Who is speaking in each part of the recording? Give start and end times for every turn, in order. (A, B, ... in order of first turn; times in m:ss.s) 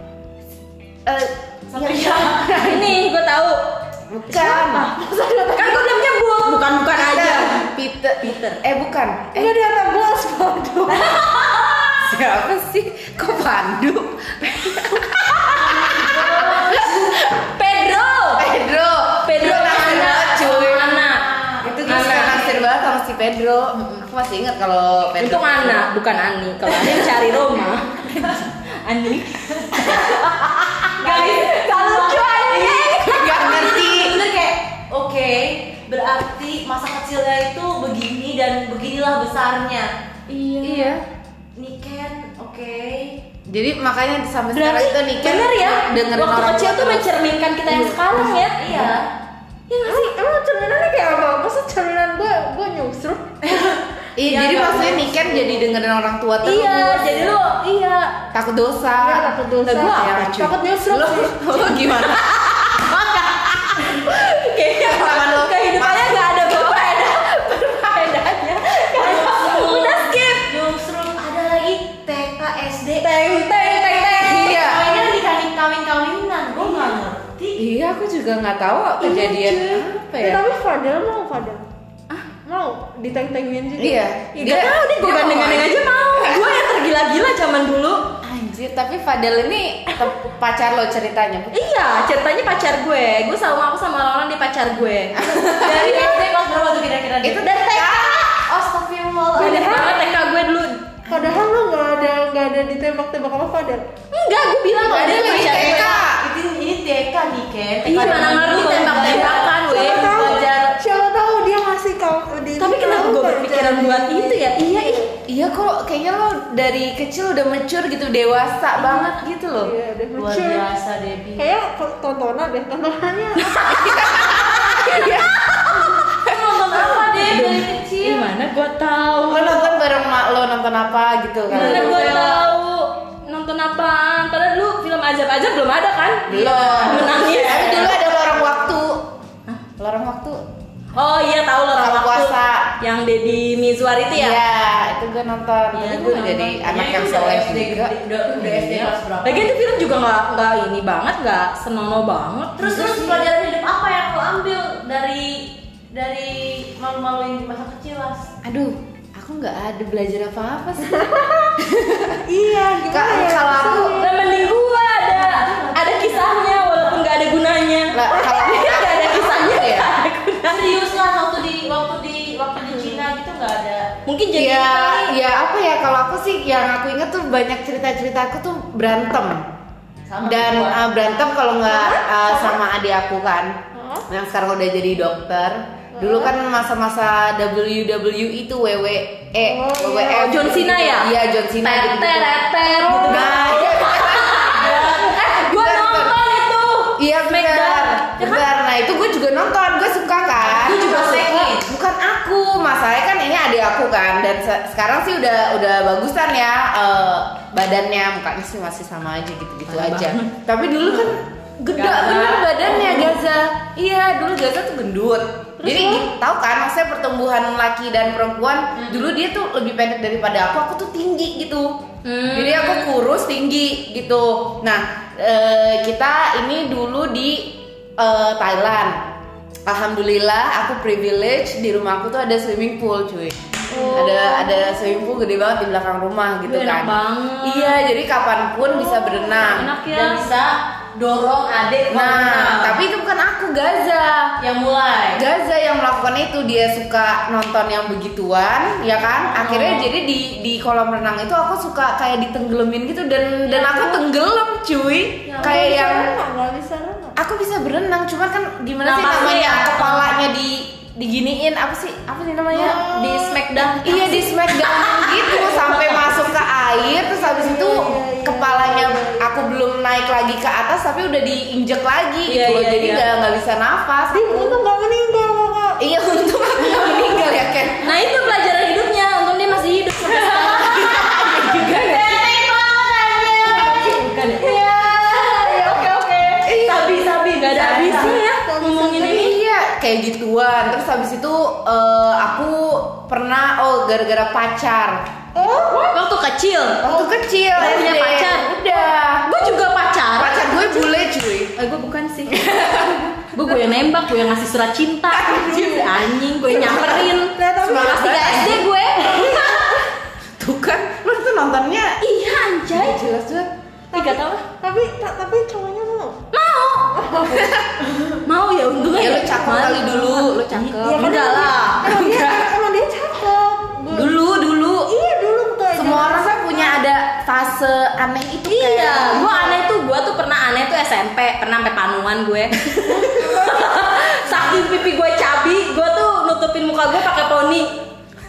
0:01.0-0:03.0 A
0:01.7-0:02.5 B
0:02.5-0:03.6 C
0:04.1-0:04.9 A
0:04.3-0:04.8 C
0:04.4-0:06.0 D
0:05.5-0:07.6 C
0:06.9-0:09.5 A
0:08.2-0:08.6 C
0:09.3-0:11.2 D
0:11.0-0:11.9 C
0:11.0-0:12.0 B
0:12.0-0:17.2 A
0:15.9-0:17.0 B
0:16.1-0:18.5 C
0:18.4-0:20.9 A
0:19.2-0:21.2 C
0:19.7-0:22.7 B
0:21.6-0:25.9 A
0:21.8-0:22.6 C
0:23.8-0:24.0 C
0:25.2-0:33.6 C
0:26.8-0:27.2 B
0:28.1-0:28.4 B
0:29.7-0:39.9 B
0:33.0-0:34.2 A
0:40.3-0:40.9 C
0:40.6-0:41.0 A
0:41.6-0:43.2 B
0:43.5-0:47.1 A
0:44.5-0:48.9 C
0:47.7-0:48.0 D
0:48.3-0:49.1 B
0:49.7-0:50.1 C
0:49.8-0:53.4 D
0:53.4-0:55.0 B
0:54.2-0:57.4 A
0:54.9-0:55.6 D
0:56.4-0:58.1 C
0:58.3-1:02.9 A
0:59.0-1:01.4 D
1:01.5-1:02.4 C
1:02.8-1:03.9 B
1:03.8-1:10.5 C
1:04.7-1:06.8 A
1:09.0-1:13.2 B
1:13.0-1:14.6 C
1:13.8-1:17.6 B
1:14.2-1:14.9 A
1:17.6-1:20.4 A
1:19.0-1:21.6 D
1:22.4-1:24.0 D
1:23.8-1:26.6 A
1:24.4-1:28.1 C
1:28.2-1:31.6 A
1:31.5-1:36.2 C
1:35.2-1:36.0 A
1:35.6-1:37.5 B
1:37.2-1:38.3 A
1:37.4-1:38.2 C
1:38.3-1:39.8 B
1:39.3-1:40.8 C
1:39.4-1:40.2 D
1:41.1-1:43.8 D
1:44.1-1:46.0 C
1:44.8-1:46.2 A
1:45.0-1:50.8 B
1:47.8-1:50.3 C
1:48.8-1:55.1 D
1:52.6-1:55.1 C
1:55.3-1:59.7 A
1:59.6-2:00.6 D
2:00.2-2:01.5 B
2:01.4-2:04.4 D
2:03.4-2:06.0 C
2:03.8-2:07.0 A
2:06.2-2:08.2 B
2:06.7-2:09.7 C
2:09.2-2:12.2 A
2:11.5-2:12.5 B
2:11.5-2:18.0 C
2:16.3-2:19.1 A
2:16.4-2:17.9 B
2:19.8-2:20.4 A
2:20.9-2:24.4 C
2:21.7-2:22.7 A
2:24.1-2:28.9 A
2:25.8-2:29.5 B
2:25.8-2:26.4 C
2:29.2-2:33.1 C
2:32.6-2:38.3 B
2:38.4-2:42.2 A
2:40.9-2:41.6 D
2:42.2-2:44.1 D
2:42.9-2:44.1 A
2:43.9-2:50.8 C
2:45.1-2:47.1 B
2:47.9-2:49.9 A
2:50.5-2:53.9 B
2:54.0-2:55.1 C
2:54.3-2:59.4 A
3:00.1-3:00.8 B
3:00.2-3:03.6 A
3:01.7-3:02.0 D
3:03.7-3:04.1 D
3:04.1-3:16.2 A
3:05.9-3:06.3 D
3:09.4-3:10.5 D
3:10.0-3:18.4 C
3:12.8-3:13.4 D
3:14.4-3:15.2 B
3:17.0-3:49.0 A
3:20.4-3:21.7 B
3:20.7-3:21.6 C
3:29.7-3:30.3 C
3:31.7-3:33.2 B
3:35.6-3:36.1 D
3:38.8-3:39.0 B
3:42.0-3:42.9 C
3:49.6-3:59.7 A
3:53.7-3:54.8 C
3:56.4-3:57.8 C
3:58.9-4:00.2 C
3:59.9-4:02.8 B
4:01.9-4:04.3 A
4:04.4-4:05.2 B
4:05.1-4:16.1 A
4:09.4-4:09.8 B
4:13.5-4:14.0 C
4:15.4-4:17.2 D
4:17.2-4:34.6 A
4:18.8-4:20.1 C
4:22.5-4:26.2 C
4:22.5-4:24.4 D
4:27.0-4:29.3 D
4:32.3-4:33.0 C
4:34.1-4:35.8 D
4:35.8-4:37.9 A
4:37.8-4:42.3 C
4:40.1-4:40.9 B
4:40.6-4:42.0 A
4:41.7-4:48.2 B
4:43.7-4:45.9 D
4:44.3-4:46.4 C
4:46.4-4:47.0 A
4:47.3-4:49.4 C
4:48.2-4:49.3 D
4:48.9-4:55.7 A
4:55.3-4:56.0 D
4:55.7-5:01.0 C
4:56.8-5:01.5 A
5:01.6-5:02.5 C
5:02.3-5:03.6 A
5:03.3-5:09.9 C
5:05.1-5:07.1 A
5:05.3-5:05.9 D
5:06.5-5:08.3 D
5:07.6-5:08.7 A
5:09.2-5:09.5 D
5:09.2-5:09.6 A
5:10.4-5:12.0 A
5:12.0-5:13.0 C
5:12.7-5:13.5 A
5:13.9-5:16.2 D
5:13.9-5:14.4 C
5:16.3-5:16.9 C
5:16.9-5:17.6 D
5:17.3-5:17.8 A
5:18.2-5:22.2 C
5:18.8-5:22.4 A
5:20.8-5:24.1 D
5:23.9-5:24.9 A
5:24.9-5:26.8 D
5:25.7-5:29.3 A
5:28.5-5:37.8 C
5:29.0-5:29.6 D
5:32.8-5:34.7 D